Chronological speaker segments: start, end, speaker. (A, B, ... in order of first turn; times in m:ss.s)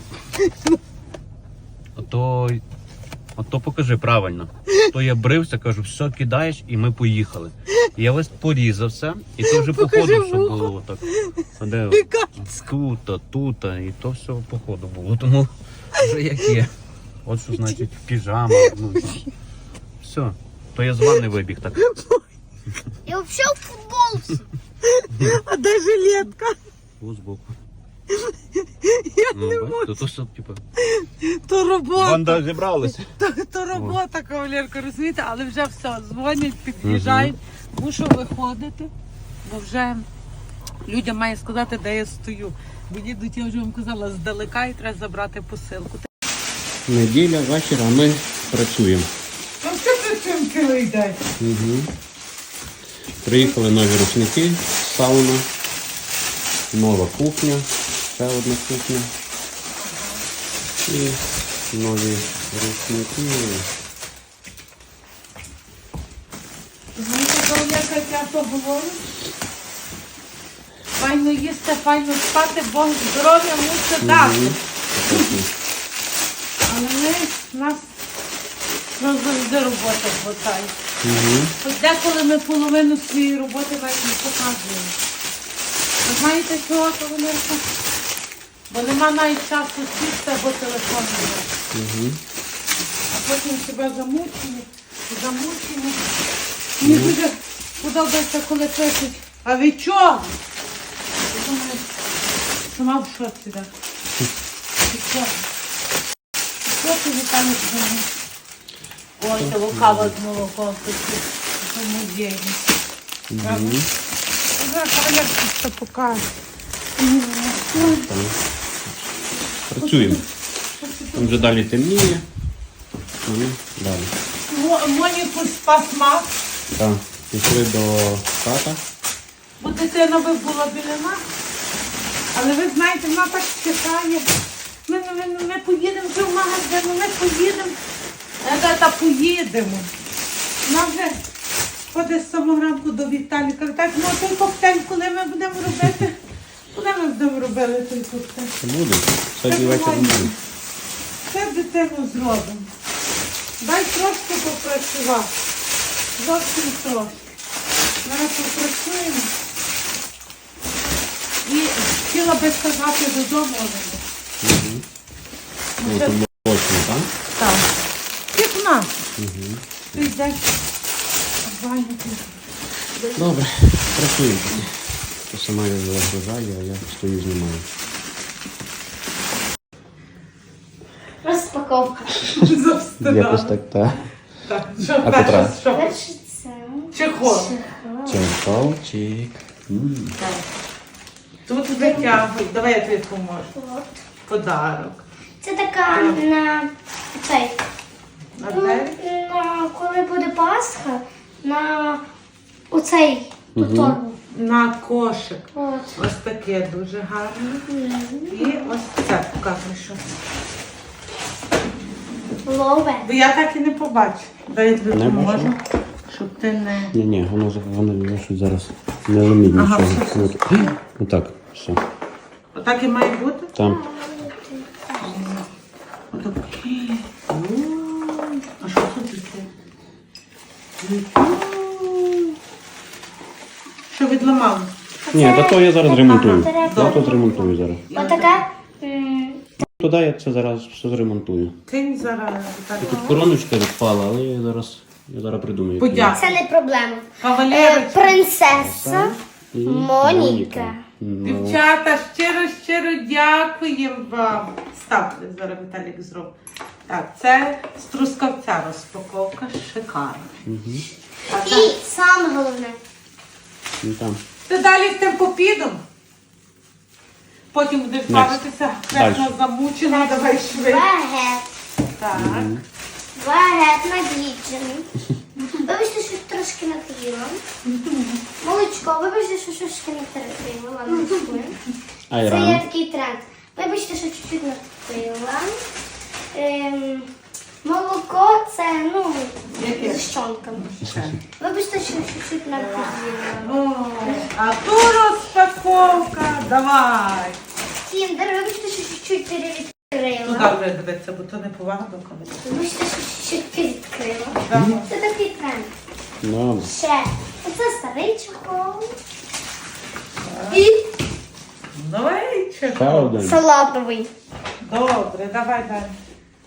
0:00.4-0:00.8 A
0:02.0-0:02.6 B
0:03.4-0:11.1 B
0:09.4-0:12.6 A
0:11.6-0:16.7 B
0:17.2-0:19.2 B
0:17.6-0:17.8 A
0:18.5-0:19.2 A
0:20.0-0:21.8 B
0:21.8-0:22.2 A
0:23.1-0:24.4 C
0:24.8-0:26.6 A
0:27.0-0:27.5 B
0:28.1-0:30.0 A
0:29.3-0:30.6 B
0:30.8-0:32.5 A
0:32.0-0:33.1 B
0:33.1-0:38.9 A
0:33.7-0:34.0 B
0:36.8-0:37.3 B
0:39.4-0:40.1 A
0:40.8-0:46.1 A
0:46.9-0:49.1 B
0:49.6-0:51.2 A
0:51.4-0:51.9 B
0:53.2-0:55.5 B
0:56.7-0:59.1 B
0:59.8-1:00.2 A
1:00.9-1:03.7 B
1:07.0-1:09.0 A
1:11.0-1:14.6 A
1:14.0-1:15.5 B
1:16.7-1:18.0 A
1:19.0-1:20.7 A
1:21.0-1:21.5 B
1:21.6-1:25.0 A
1:26.0-1:27.6 A
1:28.7-1:31.5 A
1:31.7-1:32.2 B
1:33.1-1:36.1 A
1:36.8-1:40.3 A
1:36.8-1:37.2 B
1:41.3-1:41.9 A
1:42.6-1:43.7 A
1:44.9-1:45.4 A
1:46.6-1:48.1 A
1:49.2-1:52.7 A
1:49.4-1:50.2 B
1:53.3-1:53.9 B
1:53.4-1:53.8 A
1:54.6-1:56.3 A
1:57.0-1:58.1 A
1:57.7-2:00.2 B
1:59.8-2:00.2 A
2:00.8-2:01.5 A
2:01.2-2:02.3 B
2:03.2-2:04.1 B
2:04.5-2:06.3 A
2:06.8-2:08.8 B
2:09.6-2:11.2 A
2:12.3-2:14.3 A
2:14.9-2:17.8 A
2:18.4-2:19.9 A
2:20.6-2:21.2 A
2:21.9-2:26.2 A
2:26.7-2:28.5 A
2:28.6-2:30.3 B
2:29.5-2:30.3 A
2:31.3-2:32.7 A
2:33.6-2:35.3 A
2:36.2-2:37.2 A
2:38.0-2:39.3 A
2:41.4-2:44.0 A
2:44.4-2:44.8 B
2:45.8-2:46.2 A
2:45.8-2:47.1 B
2:47.4-2:47.7 A
2:48.3-2:48.9 A
2:49.2-2:50.0 B
2:49.9-2:50.5 A
2:51.4-2:52.4 A
2:53.0-2:53.4 A
2:53.2-2:57.7 B
3:01.2-3:02.2 C
3:02.3-3:03.6 A
3:03.0-3:04.1 B
3:04.4-3:06.0 A
3:05.0-3:05.6 B
3:05.7-3:08.2 C
3:06.9-3:07.6 A
3:08.1-3:10.2 B
3:10.2-3:10.4 A
3:11.5-3:13.5 A
3:11.8-3:12.1 C
3:13.5-3:14.0 C
3:14.3-3:15.0 A
3:15.4-3:17.6 C
3:15.9-3:16.2 A
3:18.4-3:19.0 A
3:18.5-3:22.0 C
3:22.7-3:24.2 C
3:23.6-3:24.0 B
3:24.3-3:27.7 A
3:25.5-3:26.0 C
3:27.7-3:28.7 C
3:28.3-3:30.2 A
3:32.4-3:33.1 C
3:33.0-3:37.0 A
3:34.9-3:35.5 B
3:36.9-3:41.8 B
3:39.5-3:40.7 A
3:42.6-3:43.5 A
3:43.6-3:43.8 B
3:43.6-3:45.2 C
3:45.0-3:45.5 A
3:46.1-3:49.5 A
3:50.8-3:52.0 A
3:53.9-3:54.7 A
3:55.1-3:59.4 C
3:55.1-3:57.8 B
3:56.7-3:57.1 A
3:57.9-3:58.4 A
3:59.7-4:01.6 B
4:01.7-4:03.2 A
4:02.8-4:06.2 B
4:02.9-4:03.2 C
4:05.8-4:06.4 A
4:06.1-4:10.8 C
4:07.2-4:08.2 A
4:08.5-4:11.6 B
4:11.2-4:16.3 A
4:16.9-4:20.5 A
4:20.5-4:20.8 B
4:21.3-4:21.7 A
4:21.4-4:22.8 C
4:23.8-4:24.2 B
4:24.5-4:25.8 A
4:27.5-4:30.9 A
4:28.1-4:29.4 B
4:29.8-4:31.5 C
4:32.0-4:32.5 A
4:32.2-4:32.6 B
4:33.2-4:34.9 C
4:35.4-4:35.6 A
4:35.6-4:37.4 C
4:37.7-4:38.2 A
4:38.4-4:41.6 C
4:40.9-4:41.3 A
4:42.1-4:42.6 B
4:42.2-4:45.6 C
4:46.3-4:47.1 C
4:47.6-4:50.8 C
4:49.5-4:51.2 A
4:51.4-4:54.3 C
4:52.6-4:57.4 A
4:57.9-5:00.5 C
5:00.2-5:02.4 A
5:02.4-5:05.7 C
5:04.4-5:04.9 A
5:06.2-5:06.7 B
5:06.6-5:09.0 C
5:10.2-5:10.6 A
5:10.5-5:10.9 C
5:11.8-5:13.2 A
5:12.7-5:13.4 B
5:13.2-5:14.1 C
5:14.6-5:16.0 A